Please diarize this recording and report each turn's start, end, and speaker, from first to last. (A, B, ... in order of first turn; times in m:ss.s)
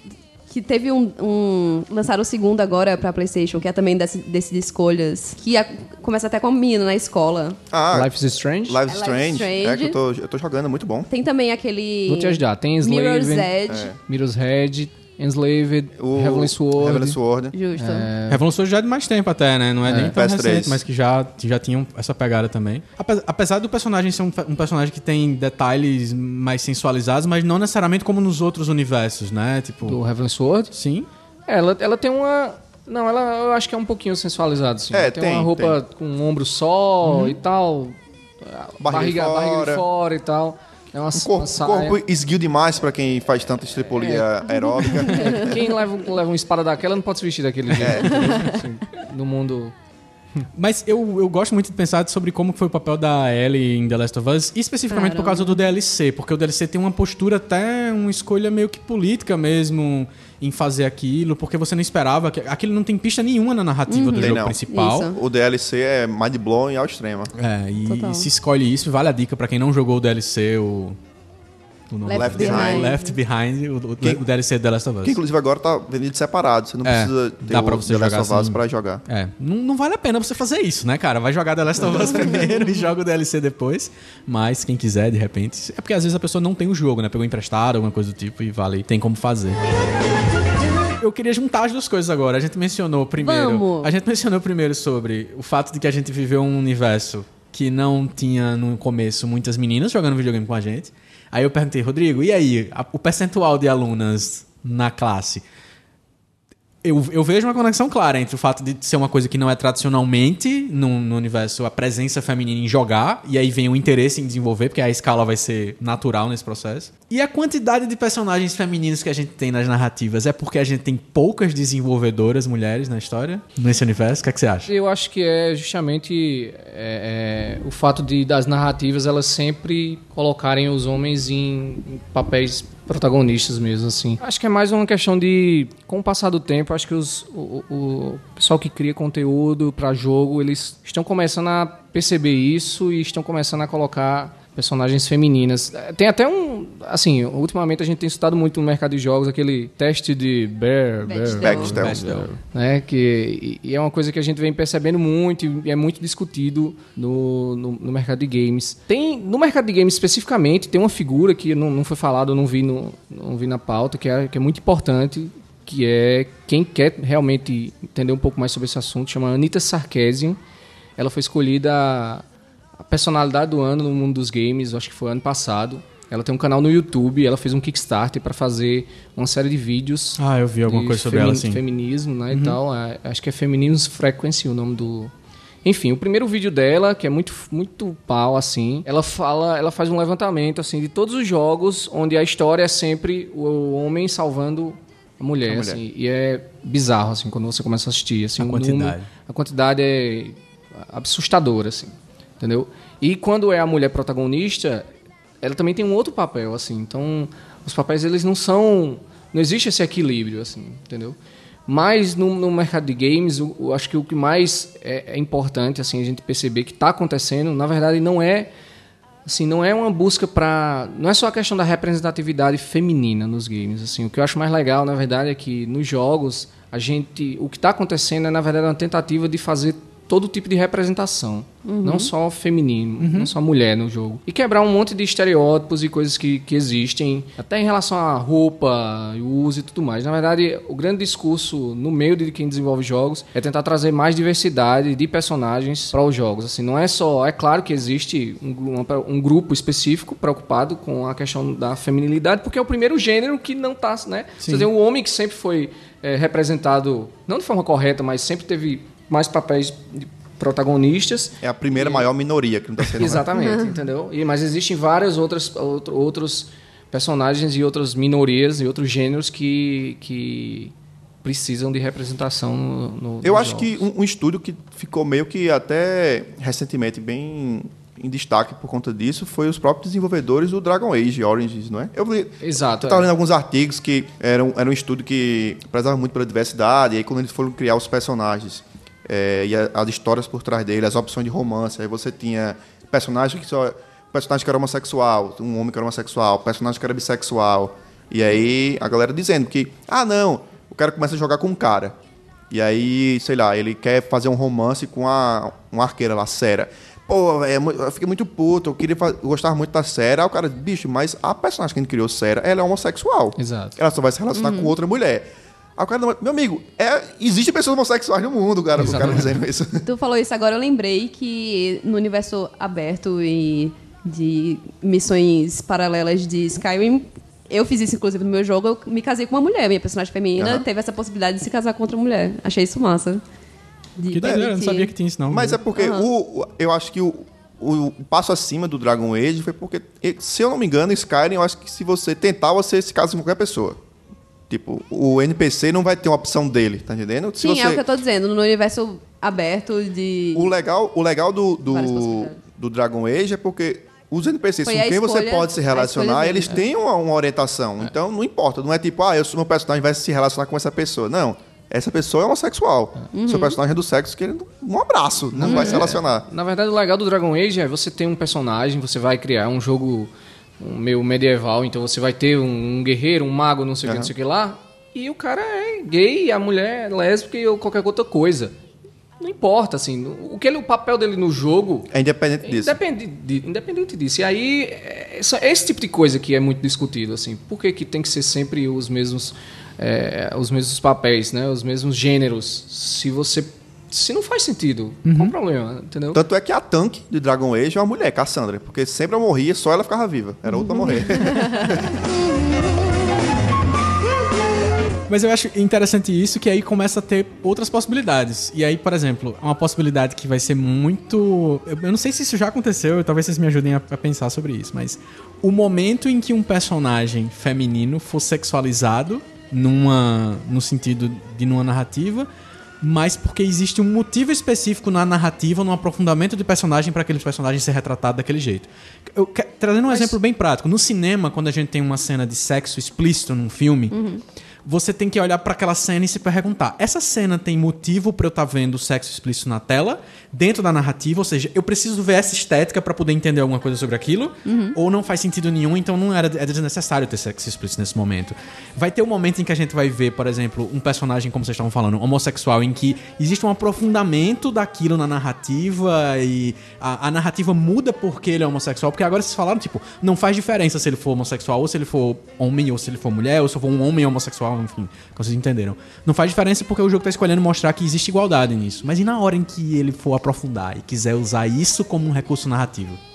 0:00.5-0:07.6 A
0:07.7-0:08.1 B
0:07.9-0:08.8 C
0:08.6-0:11.1 B
0:08.9-0:10.0 A
0:11.1-0:13.9 A
0:12.1-0:13.5 C
0:13.7-0:14.0 B
0:14.0-0:17.2 C
0:16.0-0:17.5 B
0:17.5-0:18.1 A
0:17.8-0:18.4 C
0:18.3-0:30.0 D
0:19.9-0:20.2 C
0:20.1-0:20.8 B
0:29.8-0:30.7 C
0:30.7-0:31.1 D
0:31.5-0:42.0 C
0:34.9-0:35.8 B
0:37.0-0:37.4 D
0:38.8-0:39.8 B
0:41.1-0:45.6 B
0:44.0-0:44.3 C
0:44.8-0:45.5 A
0:45.1-0:45.3 D
0:45.3-0:49.7 C
0:47.7-0:48.4 B
0:48.0-0:48.6 A
0:50.5-1:05.1 D
0:54.9-0:55.6 A
1:03.9-1:05.2 A
1:04.2-1:07.3 B
1:07.4-1:11.0 D
1:07.8-1:08.3 A
1:11.9-1:15.2 D
1:12.0-1:13.2 A
1:12.1-1:12.9 B
1:15.0-1:19.0 B
1:16.8-1:29.6 D
1:31.0-1:45.4 D
1:33.2-1:33.9 A
1:46.8-2:04.7 D
2:04.7-2:50.4 C
2:31.0-2:31.8 A
2:31.4-2:32.1 B
2:31.6-2:32.4 D
2:51.0-2:52.2 C
2:52.9-3:05.1 C
3:00.2-3:01.6 D
3:02.3-3:02.6 D
3:05.6-3:24.9 C
3:15.4-3:15.8 B
3:18.4-3:19.1 D
3:25.4-3:38.5 C
3:39.2-4:22.1 C
3:51.6-3:52.1 A
3:53.0-3:53.3 D
4:14.4-4:14.7 D
4:21.4-4:23.4 B
4:22.9-4:33.8 C
4:23.4-4:23.7 A
4:33.2-5:02.0 B
4:42.4-4:43.1 C
5:02.5-5:15.2 B
5:13.4-5:13.8 C
5:14.3-5:14.7 A
5:15.8-5:19.8 B
5:18.8-5:19.2 C
5:19.8-5:33.2 A
5:30.4-5:30.6 B
5:34.0-5:34.9 A
5:34.1-5:35.6 D
5:35.3-5:43.8 B
5:35.7-5:36.1 A
5:44.5-5:47.8 B
5:47.4-5:50.5 A
5:50.3-6:06.2 B
5:51.6-5:52.4 A
5:54.6-5:56.6 A
6:03.1-6:03.6 A
6:05.3-6:18.5 C
6:05.5-6:05.8 A
6:13.8-6:14.1 B
6:19.2-6:21.9 C
6:21.9-6:22.8 B
6:22.4-6:36.2 C
6:35.0-6:35.3 D
6:36.1-6:42.0 B
6:40.6-6:41.8 A
6:45.1-7:02.3 D
7:02.8-7:13.9 D
7:09.9-7:10.1 A
7:13.9-7:14.2 A
7:14.6-7:53.0 D
7:24.4-7:24.8 A